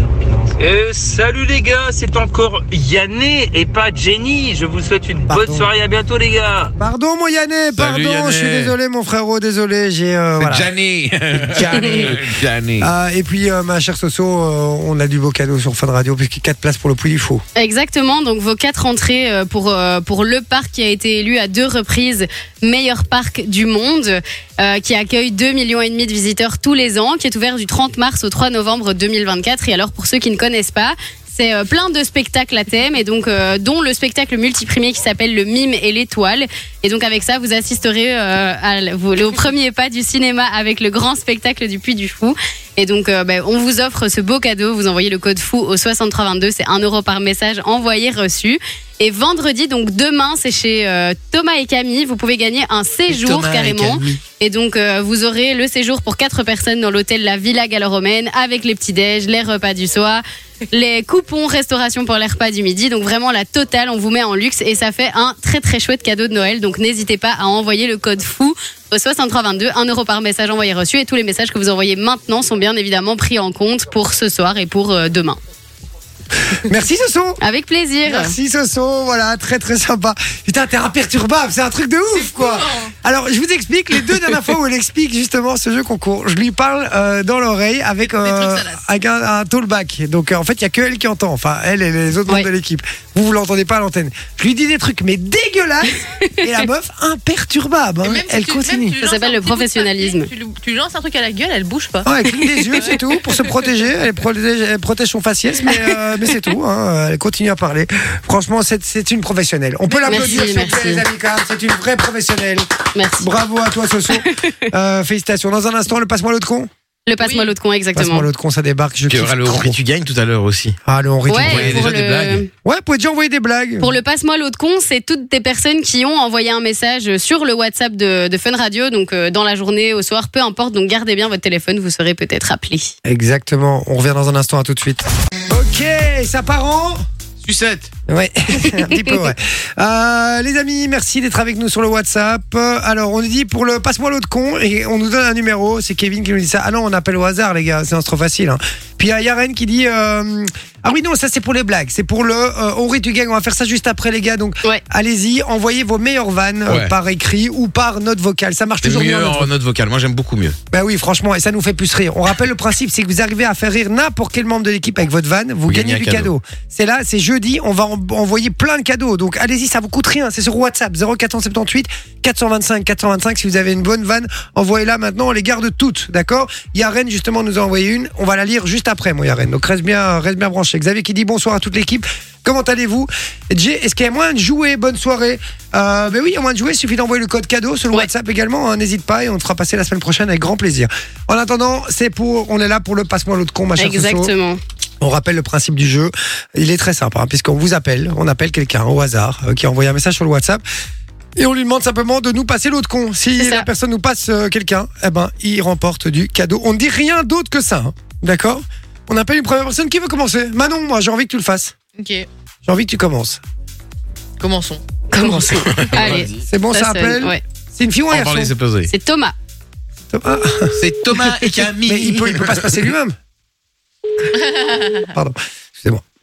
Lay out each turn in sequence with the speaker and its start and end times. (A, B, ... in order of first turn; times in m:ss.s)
0:00.6-0:06.7 A
0:05.3-0:05.7 B
0:06.8-0:10.7 B
0:07.8-0:08.8 C
0:10.4-0:12.9 C
0:11.3-0:12.3 B
0:12.8-0:17.4 B
0:17.6-1:15.4 D
0:53.1-0:54.2 C
1:16.6-1:17.4 B
1:17.4-1:18.4 D
1:18.1-1:38.9 B
1:22.2-1:22.9 E
1:28.0-1:28.8 E
1:38.0-1:42.1 E
1:39.0-1:40.3 D
1:42.0-1:52.7 B
1:42.4-1:43.0 D
1:42.8-1:43.5 E
1:49.9-1:50.4 E
1:50.1-1:51.0 D
1:53.0-1:53.3 D
1:53.2-1:56.7 B
1:54.1-1:54.5 D
1:57.1-1:58.3 D
1:57.2-1:57.5 E
1:58.0-1:59.8 B
1:59.1-2:00.8 C
2:00.9-2:01.8 B
2:01.3-2:02.5 D
2:01.4-2:02.5 C
2:02.6-2:03.9 B
2:03.8-2:12.9 D
2:13.0-2:17.0 B
2:17.4-2:17.9 C
2:18.1-2:39.5 B
2:36.7-2:36.9 C
2:38.8-2:40.6 C
2:40.7-3:14.3 B
2:45.7-2:46.3 C
3:13.8-3:14.6 D
3:15.0-3:20.6 B
3:21.4-3:31.7 B
3:23.4-3:23.7 D
3:32.0-3:32.3 E
3:32.6-3:33.4 B
3:34.4-3:34.8 E
3:35.1-3:37.4 D
3:35.2-3:35.4 B
3:35.7-3:36.3 C
3:36.3-3:38.5 B
3:38.1-3:38.9 C
3:38.9-3:39.4 D
3:40.1-3:40.8 B
3:40.8-3:42.8 C
3:41.9-3:43.2 B
3:44.3-3:45.1 E
3:45.1-3:46.0 B